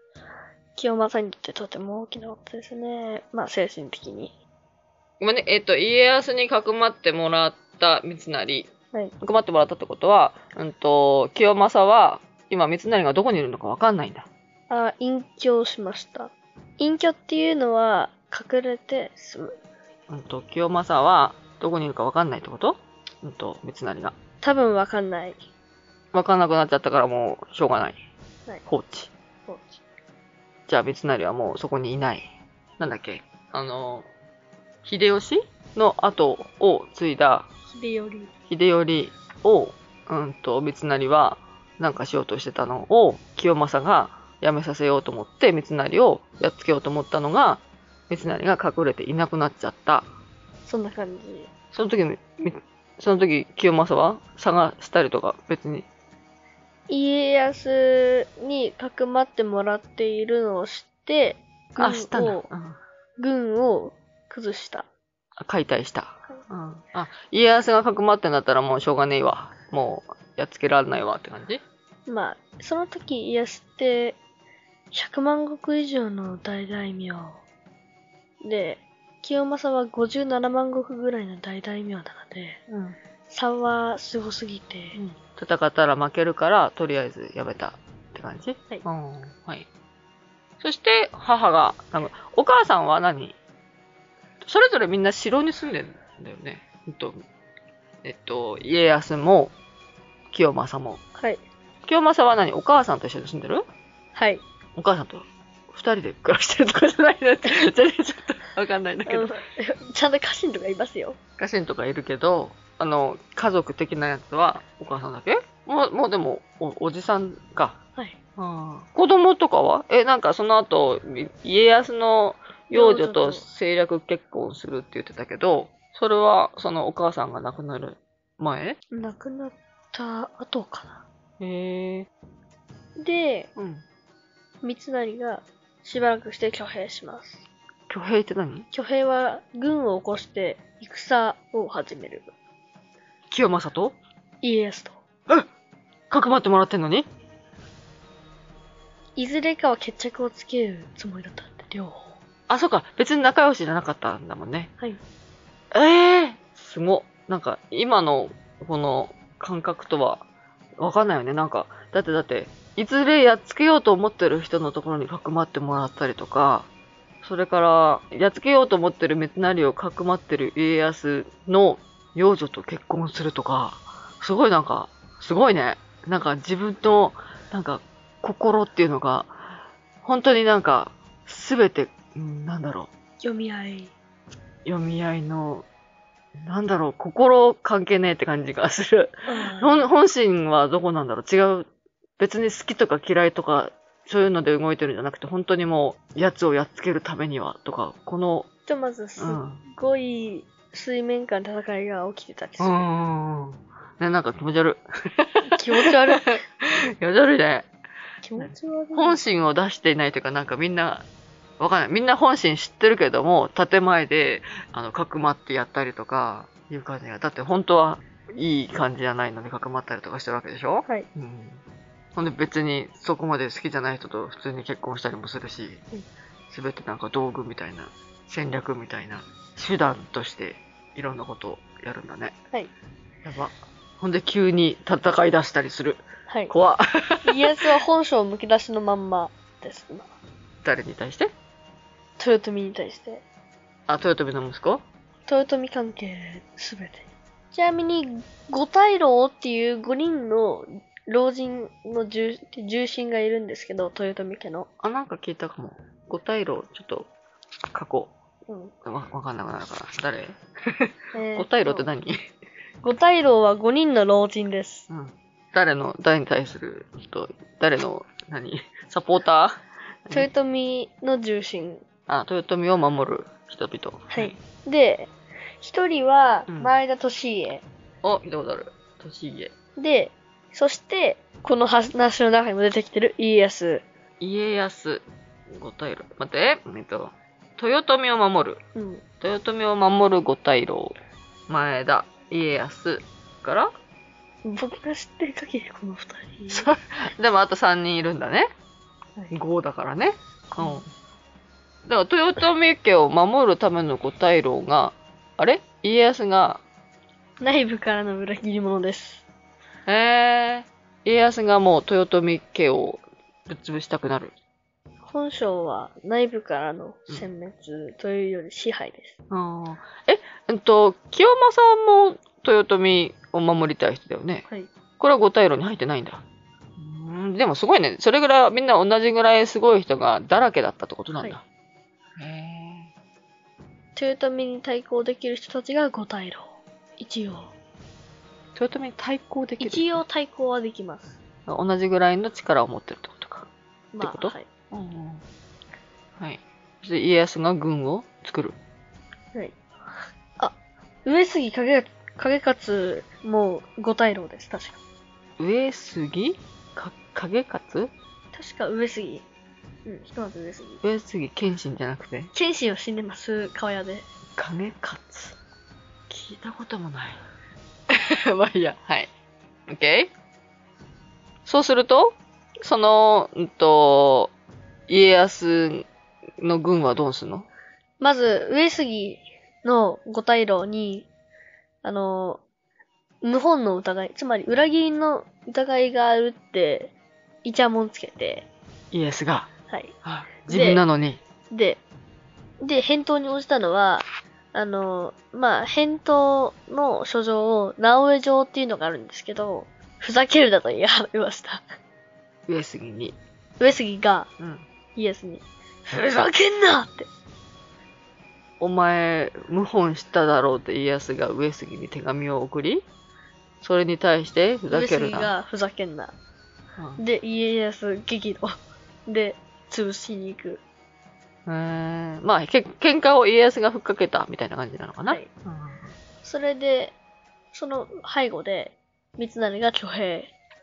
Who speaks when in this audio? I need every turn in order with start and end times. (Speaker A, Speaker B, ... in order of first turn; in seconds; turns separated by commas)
Speaker A: 0.8-4.3, Speaker B: 5.2-8.7, Speaker B: 9.2-14.3, Speaker A: 14.7-19.5, Speaker B: 20.1-24.1, Speaker A: 24.4-25.4, Speaker B: 26.1-28.0, Speaker B: 28.7-29.1, Speaker A: 29.5-29.8, Speaker B: 30.7-32.2, Speaker B: 32.8-34.1, Speaker B: 34.9-37.5, Speaker A: 37.7-38.3, Speaker B: 38.5-50.1, Speaker A: 50.7-51.5, Speaker B: 51.7-55.9, Speaker A: 56.9-62.5, Speaker B: 61.8-62.8, Speaker A: 63.2-64.9, Speaker B: 65.4-71.6, Speaker A: 72.1-74.2, Speaker A: 74.9-77.4, Speaker A: 78.4-82.6, Speaker B: 82.7-83.0, Speaker A: 83.3-85.0, Speaker B: 85.0-89.7, Speaker B: 90.6-93.4, Speaker B: 94.4-97.2, Speaker B: 98.0-99.5, Speaker B: 100.3-101.0, Speaker A: 101.2-101.4, Speaker B: 101.8-103.7, Speaker A: 104.2-104.4, Speaker B: 104.8-109.3, Speaker A: 109.1-111.2, Speaker B: 111.4-117.8, Speaker B: 118.4-128.8, Speaker A: 122.7-123.5, Speaker A: 128.9-131.0, Speaker B: 131.4-132.1, Speaker A: 133.0-133.5, Speaker B: 133.6-133.8, Speaker A: 134.6-137.4, Speaker B: 137.9-138.7, Speaker A: 138.7-142.3, Speaker B: 143.3-144.0, Speaker A: 144.4-145.0, Speaker B: 146.1-147.1, Speaker A: 149.2-152.1, Speaker B: 152.5-154.7, Speaker B: 155.7-160.2, Speaker B: 160.8-166.7, Speaker B: 167.2-179.4, Speaker B: 180.0-182.9, Speaker A: 183.2-183.9, Speaker B: 184.7-185.7, Speaker B: 186.4-191.7, Speaker A: 189.3-189.9, Speaker B: 192.2-198.5, Speaker A: 198.7-202.9, Speaker B: 199.2-199.6, Speaker B: 202.6-207.7, Speaker A: 205.5-206.4, Speaker A: 208.2-209.2, Speaker B: 208.4-211.1, Speaker B: 211.6-221.6, Speaker B: 222.2-225.8, Speaker B: 226.5-232.4, Speaker B: 233.2-237.7, Speaker A: 236.3-236.5, Speaker A: 237.2-240.1, Speaker B: 240.6-241.3, Speaker A: 242.2-243.2, Speaker B: 243.9-244.8, Speaker A: 245.3-254.7, Speaker B: 254.8-257.1, Speaker B: 257.7-258.1, Speaker A: 258.5-258.7, Speaker B: 258.8-262.2, Speaker A: 261.1-261.9, Speaker A: 262.8-264.9, Speaker B: 264.9-270.3, Speaker A: 270.1-271.8, Speaker B: 272.1-274.4, Speaker A: 274.1-277.6, Speaker B: 276.5-276.8, Speaker B: 278.0-279.5, Speaker A: 279.8-283.8, Speaker B: 284.2-288.6, Speaker A: 288.8-289.0, Speaker B: 289.2-290.9, Speaker B: 291.5-293.7, Speaker A: 294.4-296.7, Speaker B: 296.5-298.5, Speaker B: 299.3-300.9, Speaker A: 300.6-300.8, Speaker B: 301.9-306.6, Speaker A: 307.4-309.2, Speaker B: 309.9-314.3, Speaker A: 315.1-319.1, Speaker B: 319.3-324.4, Speaker B: 325.0-326.2, Speaker B: 326.8-331.4, Speaker B: 332.2-332.9, Speaker A: 334.0-337.5, Speaker B: 338.6-340.0, Speaker A: 339.6-341.2, Speaker B: 341.5-343.5, Speaker A: 343.9-344.5, Speaker B: 344.0-345.2, Speaker B: 346.2-348.6, Speaker A: 350.4-354.8, Speaker B: 355.4-357.9, Speaker A: 358.3-359.2, Speaker A: 359.9-360.8, Speaker B: 360.8-362.3, Speaker A: 362.3-364.1, Speaker B: 364.4-365.4, Speaker B: 366.1-367.2, Speaker B: 367.9-369.1, Speaker B: 369.7-370.1, Speaker B: 371.4-374.3, Speaker B: 374.9-375.9, Speaker B: 376.4-377.5, Speaker A: 378.0-381.1, Speaker A: 381.8-382.4, Speaker A: 383.2-386.9, Speaker A: 387.4-388.5, Speaker B: 388.9-389.5, Speaker A: 389.7-389.9, Speaker B: 390.0-391.2, Speaker A: 390.5-390.8, Speaker A: 391.5-391.8, Speaker A: 392.6-401.6, Speaker B: 402.5-403.2, Speaker A: 403.6-404.3, Speaker B: 404.4-404.7, Speaker A: 405.0-407.1, Speaker B: 408.6-412.8, Speaker B: 413.6-415.3, Speaker A: 414.7-416.1, Speaker B: 416.8-417.0, Speaker A: 417.0-420.6, Speaker B: 421.5-425.9, Speaker A: 426.2-426.9, Speaker A: 427.5-430.3